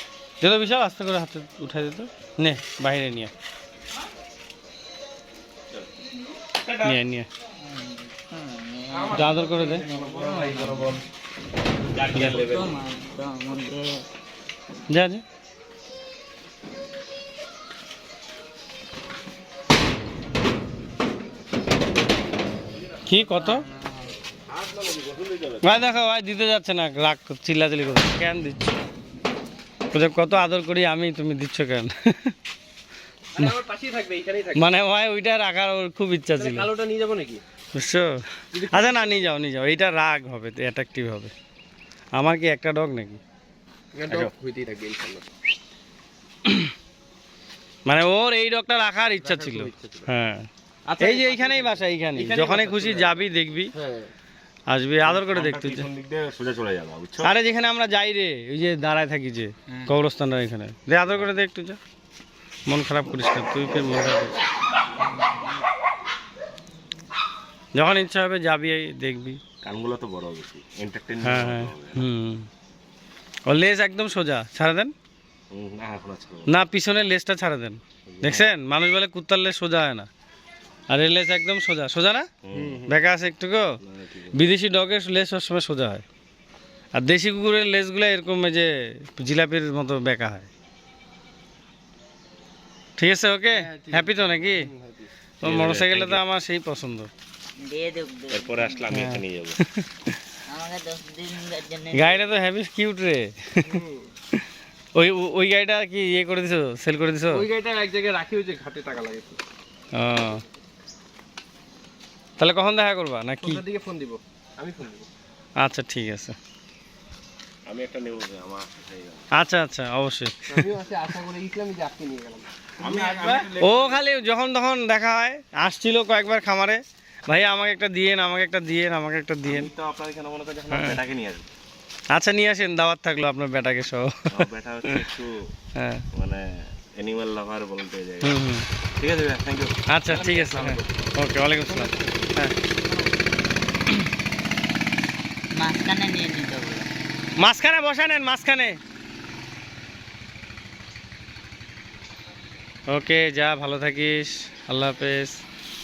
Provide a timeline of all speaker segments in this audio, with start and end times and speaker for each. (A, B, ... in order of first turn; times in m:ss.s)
0:00.4-0:03.3 A
0:06.5-0:07.0 B
0:06.8-0:07.3 A
0:07.6-0:10.9 C
0:08.9-0:11.0 D
0:09.1-0:09.8 A
0:11.9-0:12.8 B
0:12.1-0:12.4 A
0:12.2-0:14.0 C
0:14.9-0:15.2 A
0:23.1-0:23.7 A
0:23.4-0:24.2 C
0:24.5-0:25.8 B
0:25.6-0:28.7 A
0:29.9-0:32.4 A
0:33.4-0:34.7 D
0:34.6-0:36.7 A
0:36.4-0:37.4 D
0:37.7-0:41.3 A
0:38.5-0:39.1 D
0:42.2-0:43.2 A
0:44.0-0:45.3 D
0:47.9-0:50.5 A
0:49.2-0:50.1 D
0:50.9-0:53.2 D
0:51.0-0:53.7 A
0:53.7-0:54.1 D
0:54.7-0:55.9 A
0:55.0-0:57.4 B
0:57.2-1:01.8 A
1:02.7-1:04.4 A
1:07.8-1:09.4 A
1:09.6-1:12.1 B
1:11.2-1:12.5 A
1:13.5-1:14.9 A
1:15.5-1:16.5 B
1:16.5-1:20.1 A
1:18.1-1:18.5 B
1:20.9-1:22.3 A
1:22.4-1:22.9 B
1:22.6-1:22.8 D
1:22.9-1:23.7 A
1:23.8-1:24.4 B
1:24.3-1:26.0 A
1:27.0-1:30.5 A
1:33.0-1:34.7 A
1:33.5-1:35.1 D
1:35.4-1:37.1 A
1:35.4-1:36.2 B
1:37.6-1:38.9 C
1:38.3-1:39.6 B
1:38.9-1:40.1 A
1:40.5-1:42.3 C
1:41.9-1:43.8 A
1:43.6-1:44.1 D
1:45.0-1:47.5 A
1:47.3-1:49.4 D
1:50.0-1:50.4 A
1:52.4-1:53.6 A
1:53.4-1:55.1 D
1:55.6-1:56.4 A
1:57.7-1:59.3 B
1:59.4-2:00.7 A
2:00.5-2:03.4 D
2:02.8-2:04.0 B
2:03.6-2:09.7 A
2:09.4-2:11.5 B
2:10.7-2:11.0 A
2:12.1-2:15.1 A
2:14.3-2:15.4 B
2:15.8-2:16.0 A
2:16.1-2:18.4 B
2:18.2-2:18.7 A
2:19.0-2:19.8 B
2:19.9-2:22.6 A
2:20.1-2:21.1 D
2:21.6-2:23.1 D
2:25.6-2:26.9 C
2:27.4-2:28.8 A
2:32.9-2:35.4 A